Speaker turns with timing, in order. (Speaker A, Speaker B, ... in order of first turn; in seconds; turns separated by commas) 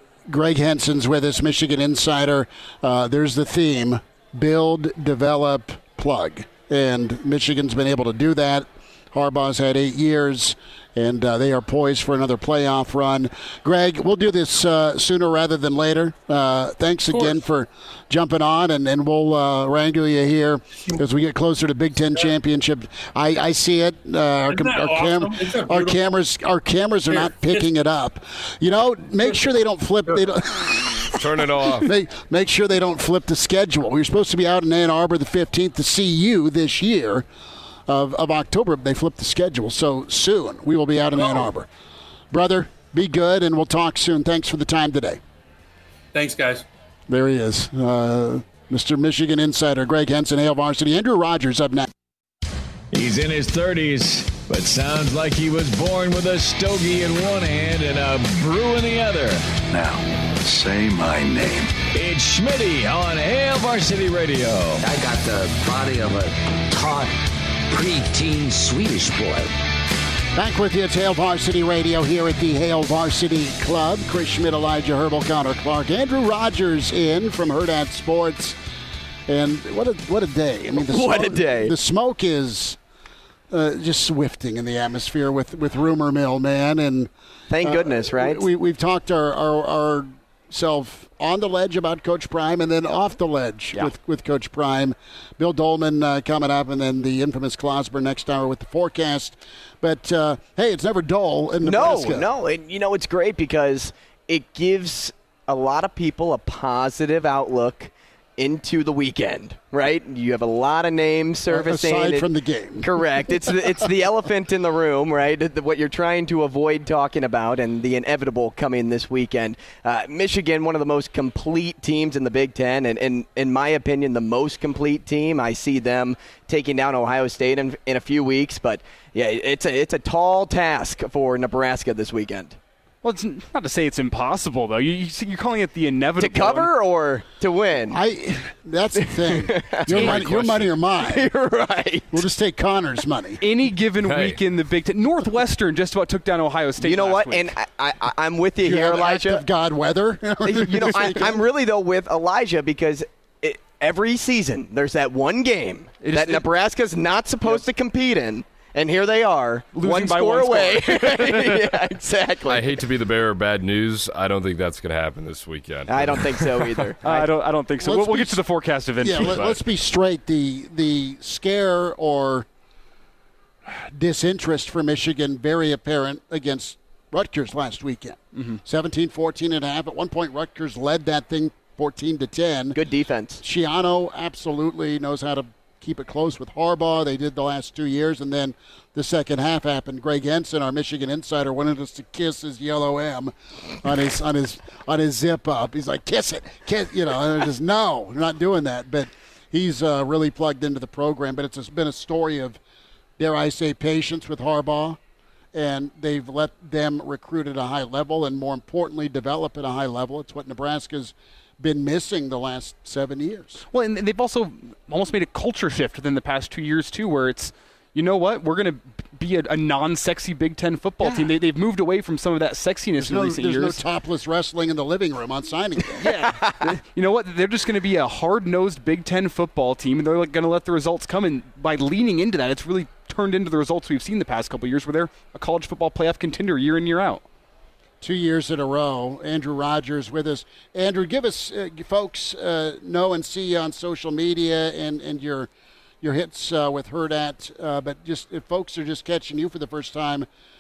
Speaker A: 0.3-37.3, Speaker B: 17.1-17.4, Speaker B: 24.5-26.0, Speaker B: 27.1-27.6, Speaker C: 31.1-31.9, Speaker A: 37.9-41.7, Speaker A: 42.3-45.2, Speaker B: 46.1-46.6, Speaker A: 47.1-51.9, Speaker D: 52.9-59.5, Speaker E: 59.7-61.8, Speaker D: 61.9-64.8, Speaker F: 64.8-67.1, Speaker F: 67.7-69.5, Speaker A: 70.3-78.6, Speaker A: 79.3-82.8, Speaker G: 80.8-81.7, Speaker A: 83.5-87.1, Speaker G: 87.5-88.5, Speaker A: 87.6-102.3, Speaker G: 101.6-112.3, Speaker A: 111.5-113.5, Speaker G: 112.8-132.6, Speaker H: 133.0-136.7, Speaker G: 136.2-138.0, Speaker A: 137.9-141.3, Speaker G: 139.0-142.2, Speaker H: 139.9-140.2, Speaker A: 142.1-143.4, Speaker H: 143.4-147.5, Speaker C: 144.0-144.4, Speaker G: 146.8-149.5, Speaker A: 148.6-151.4, Speaker G: 150.4-162.8, Speaker H: 156.0-156.4, Speaker H: 159.7-161.7, Speaker C: 162.5-166.8, Speaker G: 165.9-167.3, Speaker H: 167.0-169.6, Speaker A: 167.8-168.4, Speaker A: 169.0-172.5, Speaker A: 173.7-182.8, Speaker G: 182.8-183.4, Speaker A: 183.4-202.6, Speaker A: 203.2-205.0, Speaker A: 205.5-213.6, Speaker H: 213.7-223.8, Speaker A: 223.0-226.1, Speaker G: 226.0-226.7, Speaker H: 226.0-237.2, Speaker A: 238.0-245.5, Speaker A: 246.0-250.3